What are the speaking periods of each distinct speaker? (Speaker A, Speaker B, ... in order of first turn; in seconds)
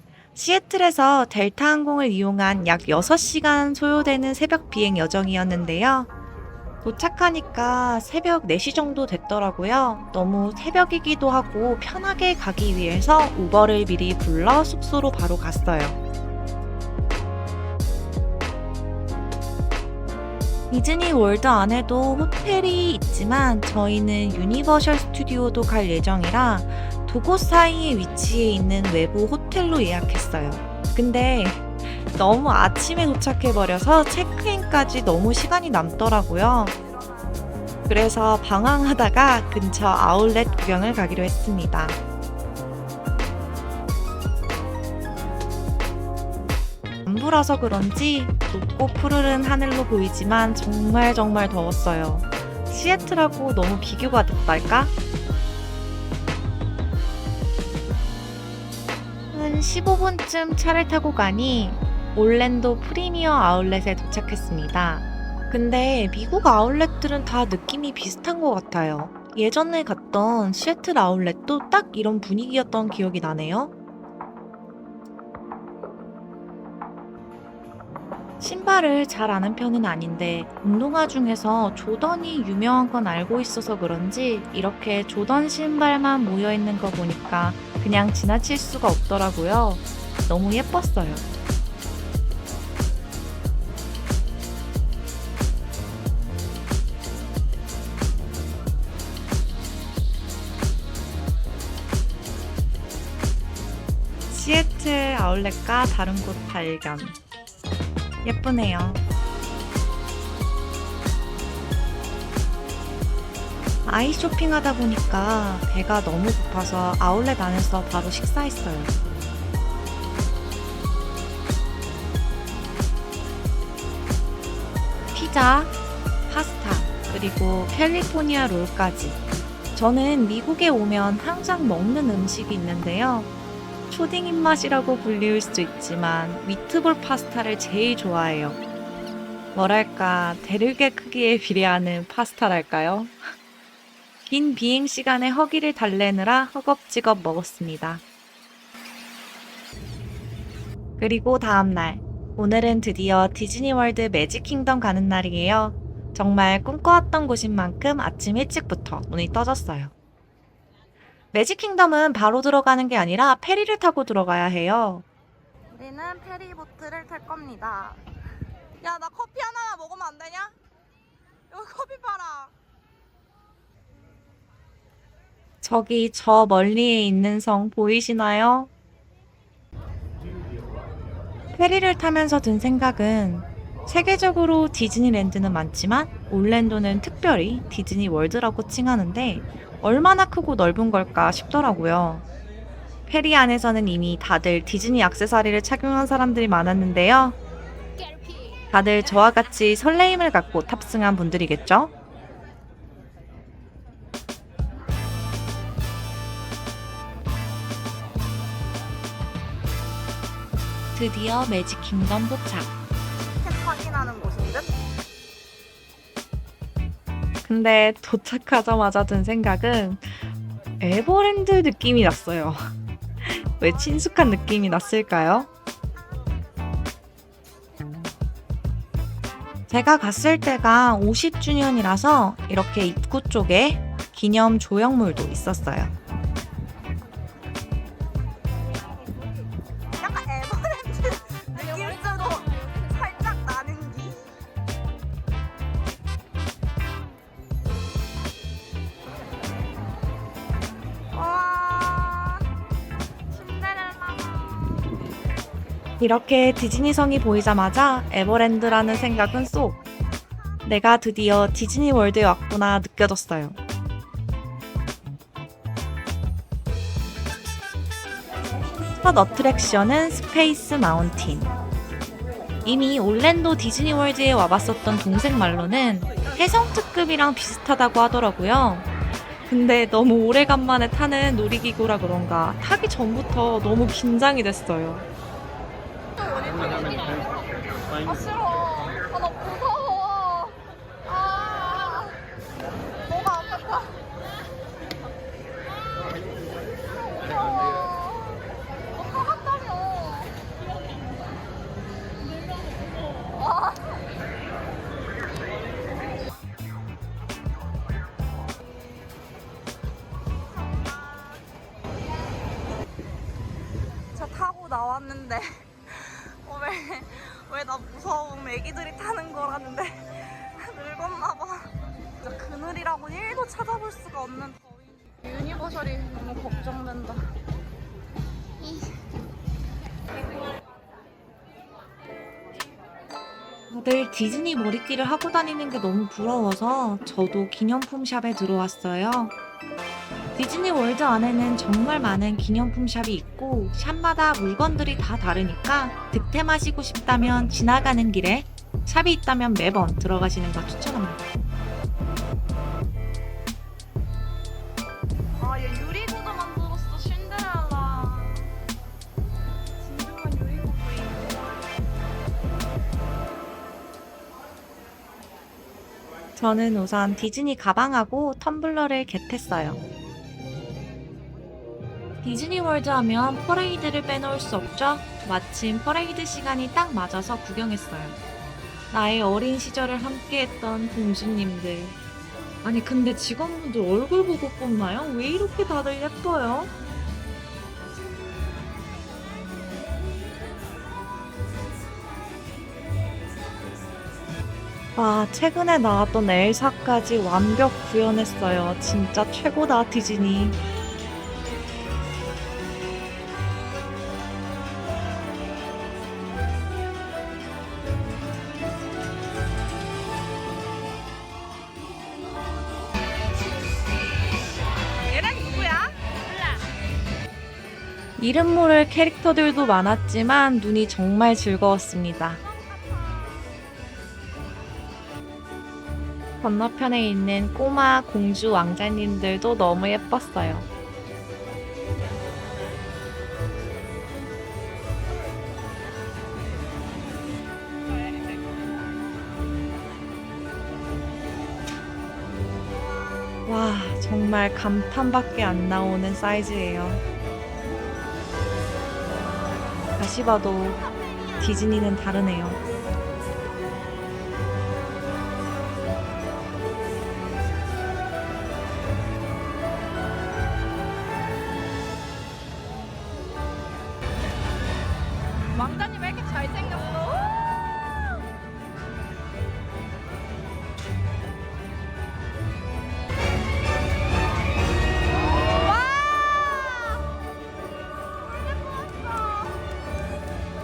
Speaker A: 0.3-6.1, 6.8-16.0, 20.7-36.8, 37.9-42.0, 47.1-54.9, 59.3-73.7, 78.4-91.2, 104.3-107.2, 108.2-109.0, 113.8-118.9, 125.1-125.7, 126.3-129.2, 129.8-133.3, 133.9-138.6, 139.6-143.2, 144.3-148.0, 151.0-159.9, 161.3-165.1, 175.6-178.7, 181.6-192.2, 193.1-197.3, 198.7-201.9, 210.9-212.7, 217.4-220.3, 220.8-222.6, 223.2-225.5, 229.7-235.9, 256.0-259.8, 260.6-263.6, 269.0-271.5, 272.6-278.9, 279.5-285.1, 333.7-339.3, 340.4-351.2, 366.4-369.8, 372.2-378.1, 378.9-381.9, 382.6-386.7, 394.9-400.6, 418.2-422.4, 426.4-430.6, 443.4-447.0, 450.0-450.8, 451.4-452.6
Speaker B: 36.8-37.4, 165.7-168.0, 168.8-170.6, 171.5-172.5, 213.4-214.8, 240.0-244.4, 251.1-252.5, 253.3-255.0, 286.1-292.2, 293.1-294.0, 297.2-300.4, 303.4-303.9, 310.6-311.4, 314.1-327.3, 355.4-358.6, 359.8-361.4, 415.1-416.0, 422.4-423.5, 465.5-467.4, 475.1-477.2, 478.4-479.7